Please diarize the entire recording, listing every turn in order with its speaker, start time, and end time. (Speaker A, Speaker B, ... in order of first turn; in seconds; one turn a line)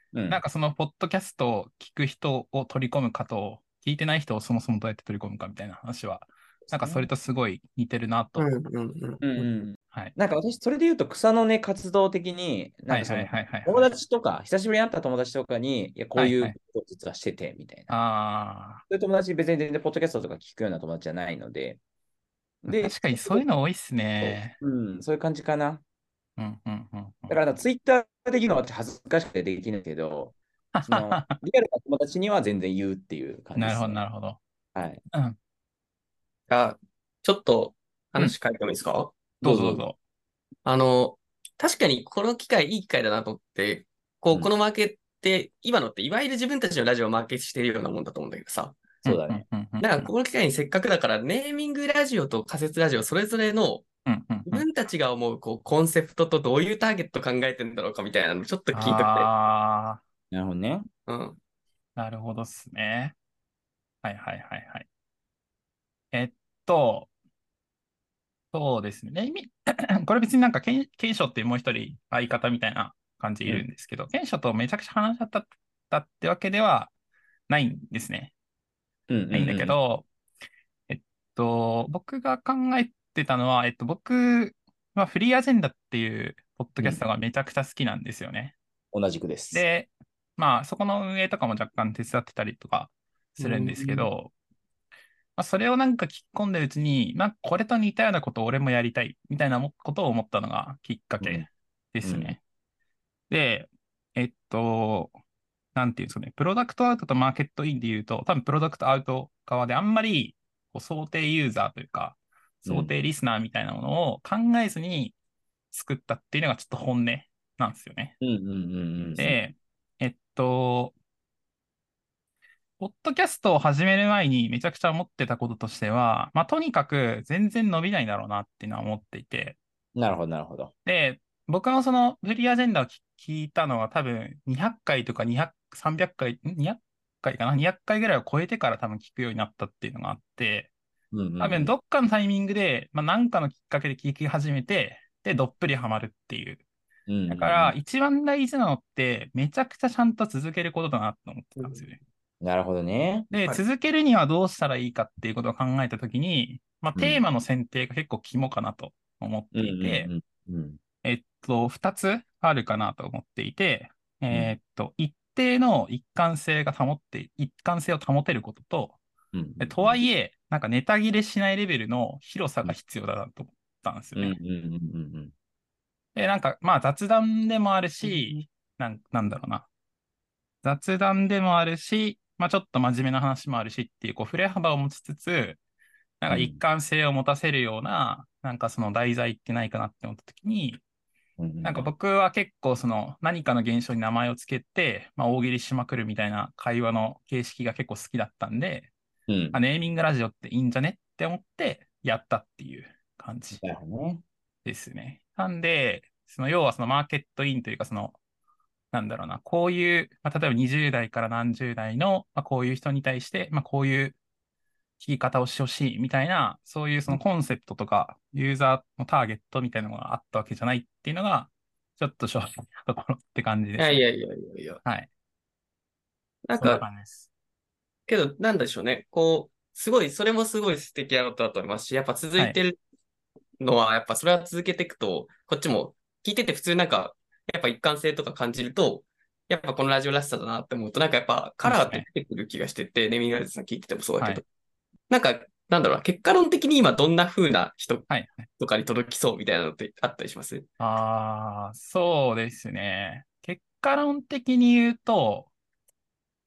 Speaker A: 0.1-0.4
Speaker B: 0.3-8.5
Speaker A: 6.7-7.1
Speaker C: 8.4-9.2
Speaker A: 9.2-17.9
Speaker B: 12.9-13.9
Speaker B: 16.2-16.6
Speaker B: 17.9-18.8
Speaker A: 18.9-21.8
Speaker A: 22.6-23.5
Speaker B: 22.8-24.6
Speaker A: 24.2-25.8
Speaker B: 26.4-27.4
Speaker A: 27.3-34.0
Speaker B: 30.8-31.4
Speaker B: 33.6-34.4
Speaker A: 34.7-35.0
Speaker C: 36.5-39.1
Speaker B: 39.4-40.0
Speaker A: 39.4-39.9
Speaker C: 40.6-48.9
Speaker A: 49.0-49.5
Speaker B: 49.0-50.1
Speaker C: 49.8-53.9
Speaker B: 54.1-54.7
Speaker C: 54.5-59.3
Speaker B: 58.7-60.0
Speaker A: 60.3-60.9
Speaker C: 61.1-61.4
Speaker B: 62.0-63.1
Speaker B: 64.0-64.9
Speaker B: 66.1-67.1
Speaker B: 68.5-76.9
Speaker B: 77.5-78.3
Speaker A: 79.1-79.8
Speaker B: 79.3-80.1
Speaker B: 80.9-88.6
Speaker A: 88.9-89.6
Speaker B: 89.5-94.3
Speaker A: 93.4-94.1
Speaker B: 95.4-102.4
Speaker A: 101.2-101.5
Speaker A: 102.0-102.4
Speaker B: 103.3-105.2
Speaker B: 105.8-115.2
Speaker A: 112.7-112.9
Speaker B: 115.7-118.2
Speaker A: 118.2-119.4
Speaker B: 119.2-121.0
Speaker B: 122.8-129.6
Speaker A: 130.0-130.7
Speaker B: 130.9-140.7
Speaker A: 141.1-141.7
Speaker B: 141.4-146.6
Speaker A: 147.1-147.8
Speaker B: 147.3-152.0
Speaker A: 152.4-153.3
Speaker B: 153.3-160.1
Speaker A: 157.0-157.2
Speaker A: 159.5-160.8
Speaker B: 161.0-169.0
Speaker A: 164.3-164.6
Speaker A: 169.3-170.0
Speaker B: 169.6-174.4
Speaker A: 174.2-175.3
Speaker B: 176.2-179.7
Speaker B: 180.6-185.6
Speaker B: 186.2-190.8
Speaker A: 186.3-186.6
Speaker A: 191.4-191.9
Speaker B: 191.6-198.9
Speaker A: 199.3-199.6
Speaker B: 199.5-203.6
Speaker A: 203.5-204.2
Speaker B: 204.7-208.2
Speaker B: 208.9-214.2
Speaker B: 215.0-224.0
Speaker C: 223.8-224.8
Speaker B: 224.8-225.1
Speaker C: 226.5-226.8
Speaker B: 226.6-227.3
Speaker C: 228.1-232.8
Speaker C: 233.6-244.4
Speaker B: 241.6-242.1
Speaker C: 245.1-248.1
Speaker B: 248.1-248.5
Speaker C: 248.6-250.7
Speaker B: 250.8-255.5